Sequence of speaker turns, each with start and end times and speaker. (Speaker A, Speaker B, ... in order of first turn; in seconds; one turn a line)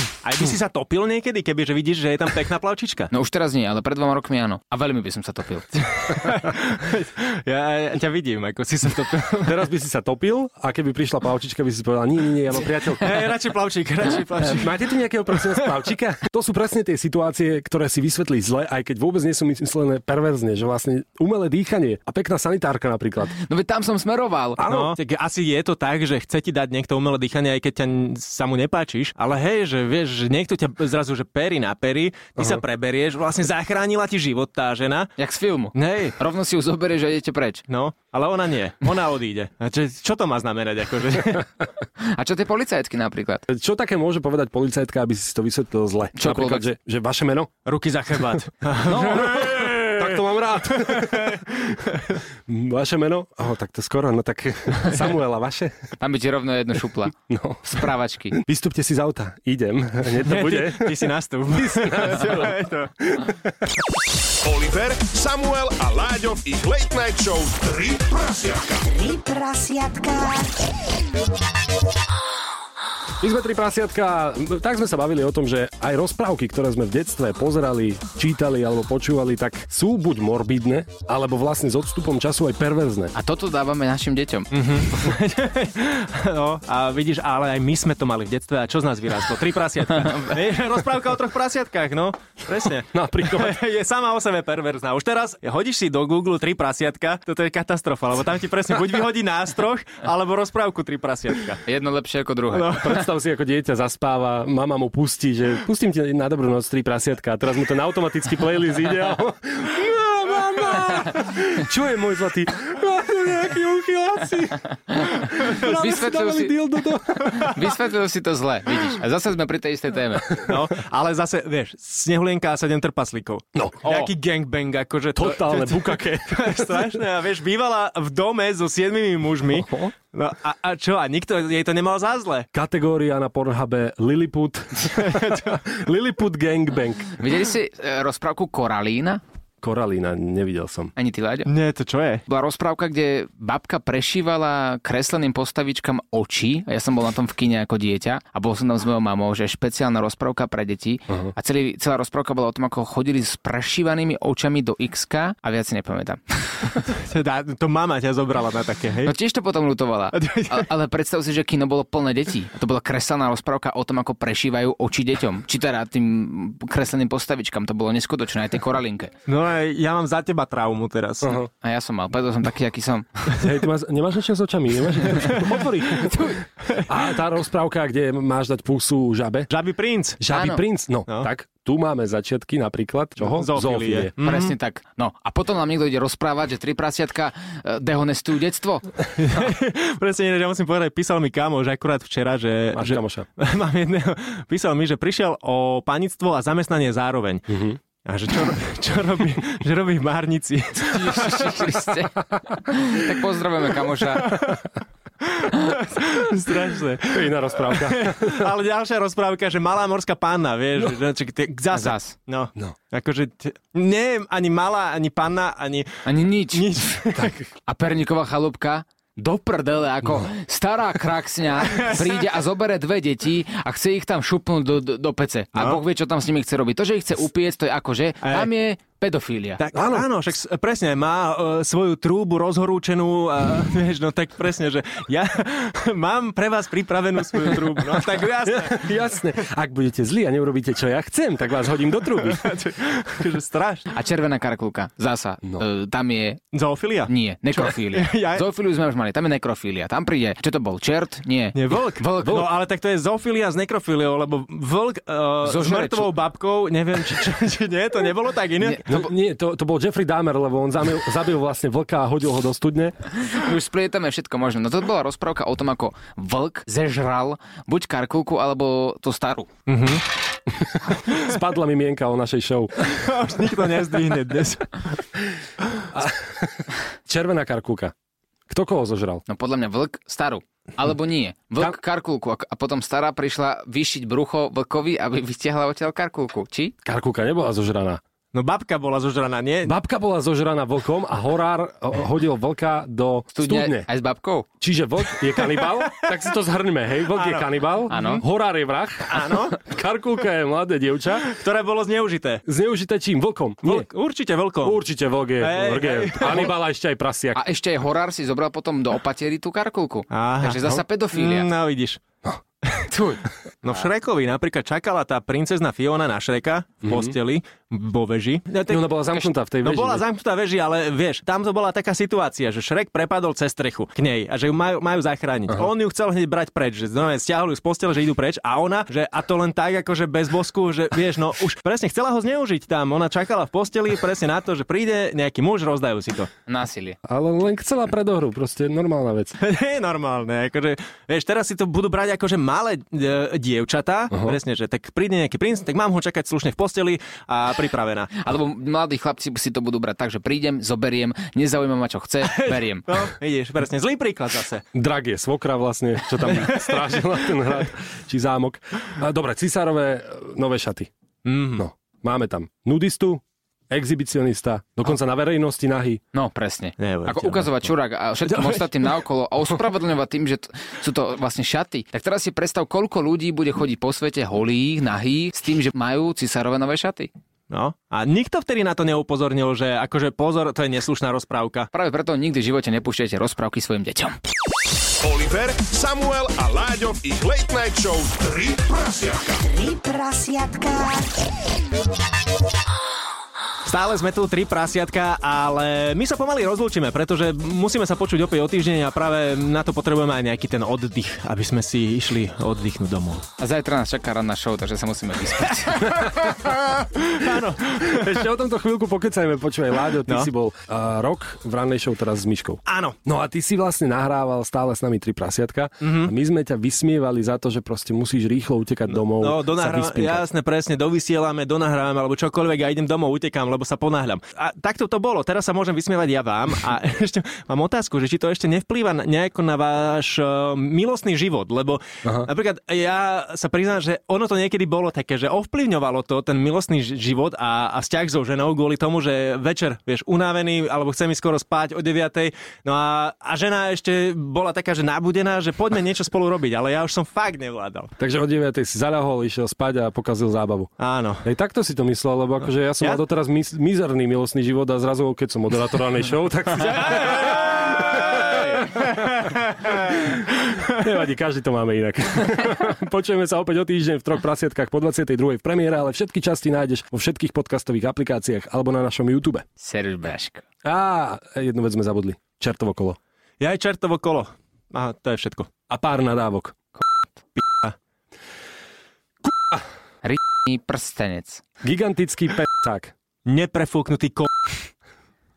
Speaker A: 0.2-3.1
Speaker B: 3.1-5.8
Speaker A: 6.0-9.6
Speaker C: 9.4-13.1
Speaker A: 13.0-14.9
Speaker C: 14.4-23.4
Speaker B: 23.4-24.6
Speaker C: 24.6-25.0
Speaker A: 24.7-35.1
Speaker B: 35.2-37.6
Speaker A: 35.8-36.2
Speaker A: 37.7-41.5
Speaker B: 42.0-43.5
Speaker C: 43.5-47.5
Speaker B: 46.2-46.7
Speaker A: 47.7-52.2
Speaker C: 48.9-51.8
Speaker B: 48.9-49.4
Speaker C: 52.5-55.8
Speaker B: 56.0-58.4
Speaker C: 57.3-63.7
Speaker A: 60.2-62.9
Speaker D: 64.4-68.8
Speaker E: 68.9-70.5
Speaker C: 73.2-83.1
Speaker B: 83.1-84.6
Speaker A: 84.5-101.6
Speaker C: 92.8-93.6
Speaker B: 101.7-103.0
Speaker A: 102.5-103.0
Speaker C: 102.8-117.6
Speaker B: 115.0-116.5
Speaker A: 117.3-117.5
Speaker B: 117.4-120.5
Speaker A: 120.4-132.5
Speaker B: 123.8-124.1
Speaker C: 125.2-127.0
Speaker C: 129.5-129.9
Speaker C: 132.5-137.2
Speaker A: 134.9-135.6
Speaker B: 137.2-139.2
Speaker C: 139.6-140.9
Speaker B: 141.0-141.5
Speaker A: 141.5-142.2
Speaker B: 142.3-156.8
Speaker A: 156.9-159.1
Speaker B: 159.1-169.1
Speaker A: 160.1-160.7
Speaker A: 169.3-171.4
Speaker C: 171.2-171.5
Speaker B: 171.6-173.4
Speaker C: 173.4-176.3
Speaker A: 175.2-175.4
Speaker A: 176.0-176.9
Speaker C: 176.9-179.5
Speaker A: 179.5-180.2
Speaker C: 180.2-184.1
Speaker B: 180.3-180.6
Speaker A: 183.3-184.6
Speaker B: 184.2-188.9
Speaker A: 189.2-197.5
Speaker C: 192.7-193.3
Speaker C: 197.5-197.8
Speaker A: 198.1-201.5
Speaker B: 200.8-204.4
Speaker A: 204.2-204.6
Speaker A: 205.2-217.3
Speaker C: 207.0-208.5
Speaker B: 211.7-212.2
Speaker B: 216.1-216.7
Speaker C: 217.2-217.4
Speaker B: 217.7-229.6
Speaker A: 221.7-222.2
Speaker A: 228.2-228.5
Speaker A: 229.6-238.9
Speaker C: 229.7-230.1
Speaker C: 238.4-242.4
Speaker A: 242.2-243.9
Speaker B: 243.9-246.4
Speaker A: 246.5-248.4
Speaker B: 247.1-252.4
Speaker A: 251.6-258.8
Speaker B: 255.4-256.1
Speaker B: 258.6-259.1
Speaker C: 258.9-262.9
Speaker B: 263.2-269.5
Speaker A: 269.7-270.1
Speaker C: 270.6-272.9
Speaker A: 272.8-274.8
Speaker C: 275.9-277.9
Speaker C: 278.5-279.2
Speaker B: 279.3-286.8
Speaker C: 286.8-288.0
Speaker A: 288.3-289.7
Speaker C: 289.6-293.9
Speaker B: 293.3-294.5
Speaker C: 294.6-301.3
Speaker A: 297.1-298.2
Speaker B: 297.9-298.2
Speaker A: 299.1-299.6
Speaker A: 301.3-302.4
Speaker C: 302.5-303.9
Speaker A: 303.6-304.8
Speaker C: 304.6-307.4
Speaker A: 305.4-306.5
Speaker B: 307.4-311.5
Speaker A: 310.1-312.0
Speaker A: 312.6-312.9
Speaker A: 313.6-336.3
Speaker C: 316.8-317.1
Speaker C: 318.7-320.0
Speaker B: 336.5-337.0
Speaker C: 337.1-339.4
Speaker A: 339.4-348.1
Speaker C: 344.1-344.4
Speaker B: 348.2-353.1
Speaker A: 352.2-354.6
Speaker C: 354.7-360.9
Speaker A: 356.1-357.3
Speaker A: 361.2-361.6
Speaker C: 361.6-366.0
Speaker B: 366.1-377.1
Speaker A: 366.8-367.7
Speaker A: 377.5-381.7
Speaker B: 381.7-384.1
Speaker D: 385.0-389.4
Speaker E: 389.4-391.2
Speaker A: 393.6-403.2
Speaker B: 403.4-406.1
Speaker A: 405.8-408.2
Speaker C: 406.0-406.2
Speaker C: 407.8-420.3
Speaker A: 412.7-413.0
Speaker A: 415.8-416.1
Speaker A: 419.0-447.9
Speaker C: 448.0-450.7
Speaker A: 450.8-451.2
Speaker C: 451.2-459.0
Speaker A: 456.7-460.7
Speaker C: 459.7-469.4
Speaker B: 469.6-470.4
Speaker C: 470.6-473.0
Speaker A: 473.4-475.5
Speaker C: 475.7-476.6
Speaker A: 477.4-477.8
Speaker C: 479.2-479.6
Speaker B: 480.0-481.4
Speaker C: 481.6-482.9
Speaker A: 483.3-484.3